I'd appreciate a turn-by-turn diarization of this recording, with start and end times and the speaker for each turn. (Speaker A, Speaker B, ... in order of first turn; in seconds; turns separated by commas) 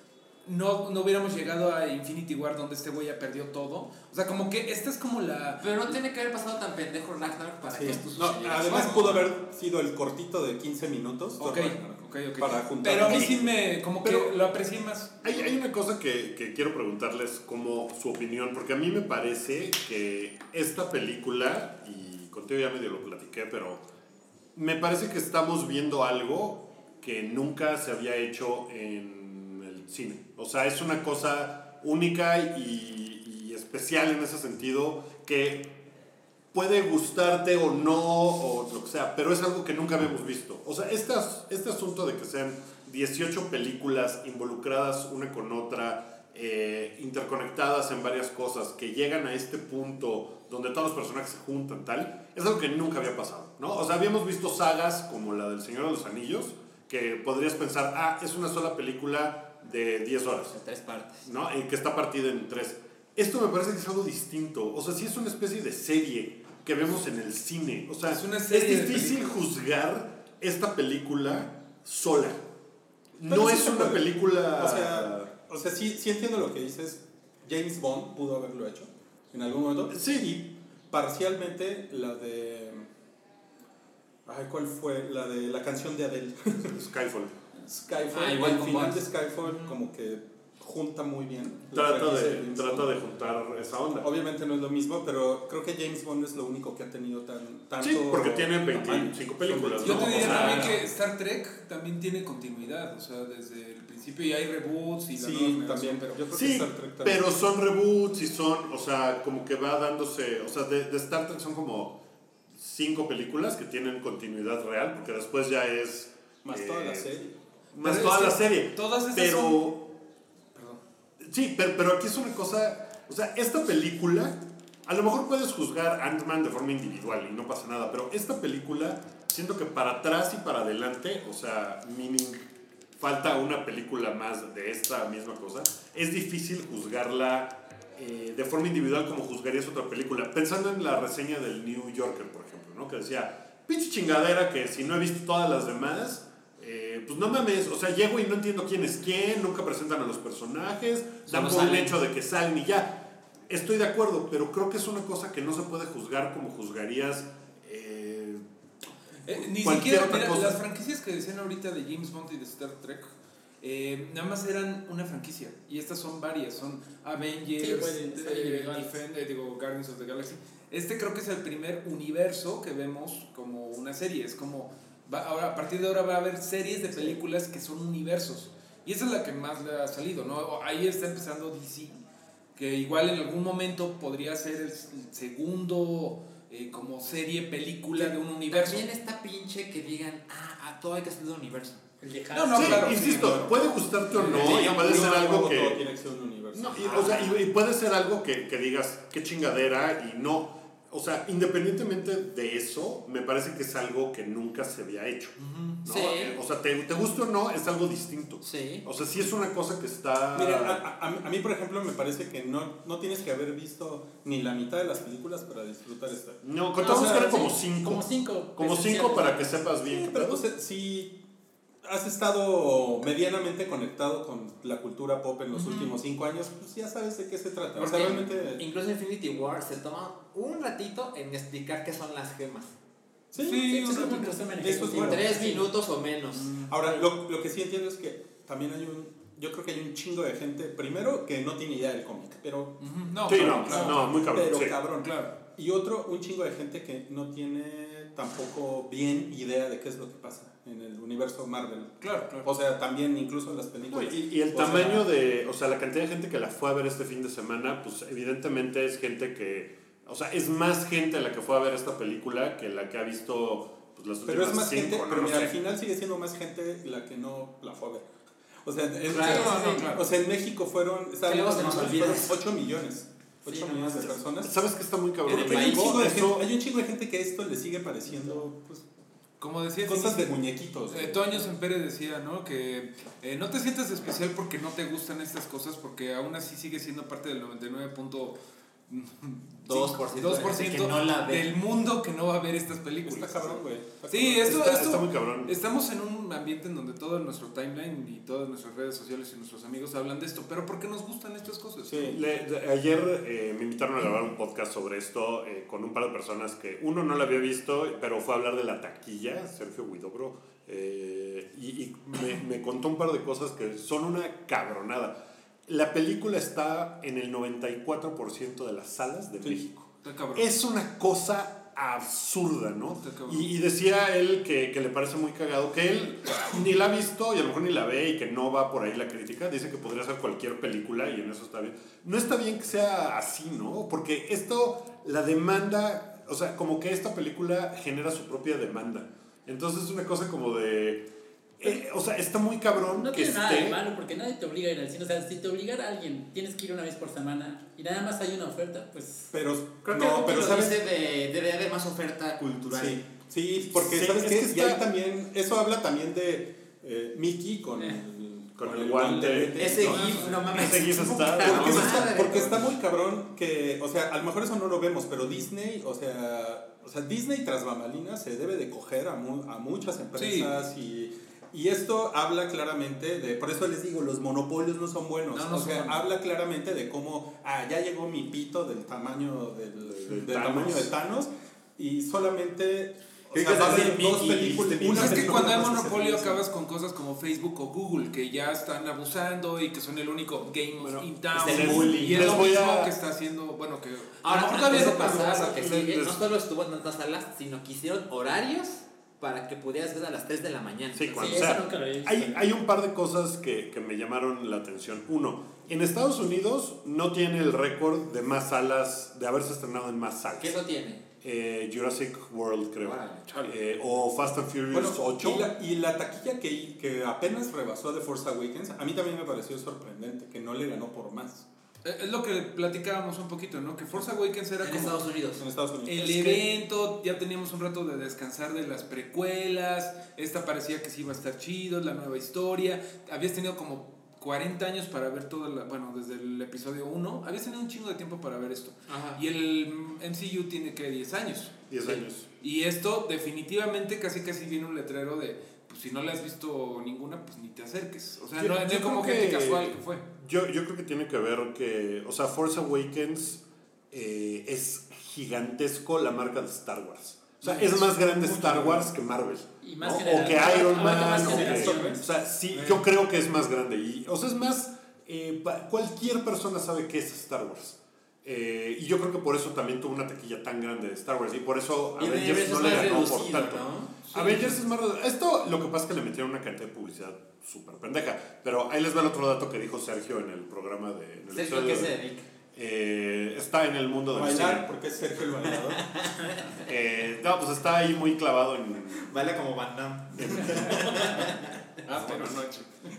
Speaker A: 0.4-6.0, Speaker B: 5.6-9.3, Speaker C: 7.7-13.5, Speaker A: 8.6-9.2, Speaker A: 11.4-15.3, Speaker D: 13.1-13.4, Speaker D: 14.0-14.3, Speaker D: 15.2-23.8, Speaker D: 24.5-35.8, Speaker D: 36.5-60.5, Speaker B: 60.5-61.2, Speaker D: 61.2-72.4, Speaker A: 68.1-69.4, Speaker D: 73.1-75.3, Speaker C: 73.3-82.9, Speaker D: 79.9-80.3, Speaker C: 84.2-86.8, Speaker D: 86.6-87.3, Speaker C: 87.6-92.9, Speaker B: 88.1-89.0, Speaker D: 91.7-94.1, Speaker C: 94.0-100.8, Speaker D: 97.8-100.8, Speaker A: 99.8-106.3, Speaker C: 105.1-107.3, Speaker D: 106.3-112.0, Speaker D: 112.5-117.1, Speaker C: 116.4-117.3, Speaker D: 117.7-119.9, Speaker A: 117.8-119.6, Speaker A: 120.5-120.8, Speaker D: 121.2-132.4, Speaker D: 133.0-158.4, Speaker B: 151.2-152.0, Speaker A: 159.2-182.0, Speaker D: 159.3-160.6, Speaker E: 167.6-168.9, Speaker A: 182.6-188.9, Speaker B: 187.9-191.8, Speaker E: 192.0-193.1, Speaker A: 192.3-194.6, Speaker D: 192.5-195.8, Speaker C: 192.9-197.2, Speaker B: 194.3-195.1, Speaker D: 196.5-210.8, Speaker B: 196.8-197.4, Speaker A: 205.4-205.8, Speaker B: 205.8-206.4, Speaker B: 208.4-208.8, Speaker C: 210.3-217.1, Speaker D: 216.4-220.4, Speaker E: 216.8-219.8, Speaker C: 219.9-221.2, Speaker C: 221.8-228.6, Speaker A: 225.5-225.9, Speaker A: 227.8-228.2, Speaker B: 227.8-232.7, Speaker C: 233.3-235.3, Speaker A: 233.4-234.7, Speaker E: 233.5-235.7, Speaker B: 235.0-236.5, Speaker A: 236.3-236.8, Speaker C: 236.7-255.1, Speaker A: 242.8-244.0, Speaker D: 243.2-244.8, Speaker E: 243.7-244.0, Speaker A: 245.0-245.3, Speaker A: 252.0-252.5, Speaker D: 253.9-265.5, Speaker C: 264.2-268.0, Speaker C: 268.6-274.5, Speaker B: 269.1-270.0, Speaker A: 269.1-270.0, Speaker B: 271.2-272.4, Speaker B: 273.5-274.2, Speaker D: 274.4-276.5, Speaker C: 275.2-278.9, Speaker B: 275.3-276.0, Speaker A: 279.4-288.4, Speaker C: 279.8-281.4, Speaker A: 288.9-302.1, Speaker B: 289.7-291.5, Speaker C: 293.0-294.7, Speaker D: 294.4-295.5, Speaker C: 301.9-302.2, Speaker D: 302.0-343.8, Speaker A: 320.0-320.5, Speaker A: 322.9-323.5, Speaker E: 343.0-349.3, Speaker C: 349.3-350.8, Speaker B: 349.9-353.0, Speaker C: 352.4-360.4, Speaker D: 353.7-354.8, Speaker D: 358.6-362.1, Speaker B: 359.6-362.7, Speaker A: 359.8-360.4, Speaker C: 361.4-386.4, Speaker A: 370.1-370.5, Speaker A: 375.3-376.1, Speaker D: 379.9-380.9, Speaker B: 383.3-385.5, Speaker A: 384.8-395.5, Speaker D: 390.8-392.9, Speaker B: 391.3-392.6, Speaker B: 394.2-401.6, Speaker D: 394.6-396.2, Speaker D: 400.9-410.5, Speaker E: 401.2-402.5, Speaker B: 410.4-411.0, Speaker D: 411.2-415.5, Speaker B: 412.8-413.5, Speaker C: 414.7-421.5, Speaker A: 421.8-425.0, Speaker B: 424.6-425.4, Speaker C: 425.4-426.4, Speaker A: 425.9-450.0, Speaker B: 438.9-439.2, Speaker D: 441.7-442.3, Speaker D: 448.4-482.0, Speaker A: 457.4-458.9, Speaker E: 459.6-462.0, Speaker C: 461.2-462.0, Speaker A: 462.5-462.8, Speaker B: 472.0-474.1, Speaker B: 481.3-482.3, Speaker D: 482.5-484.7, Speaker C: 484.1-485.8, Speaker B: 485.6-486.7, Speaker D: 486.6-489.1, Speaker B: 488.9-491.6, Speaker D: 490.1-491.0, Speaker A: 491.9-492.7, Speaker C: 491.9-492.4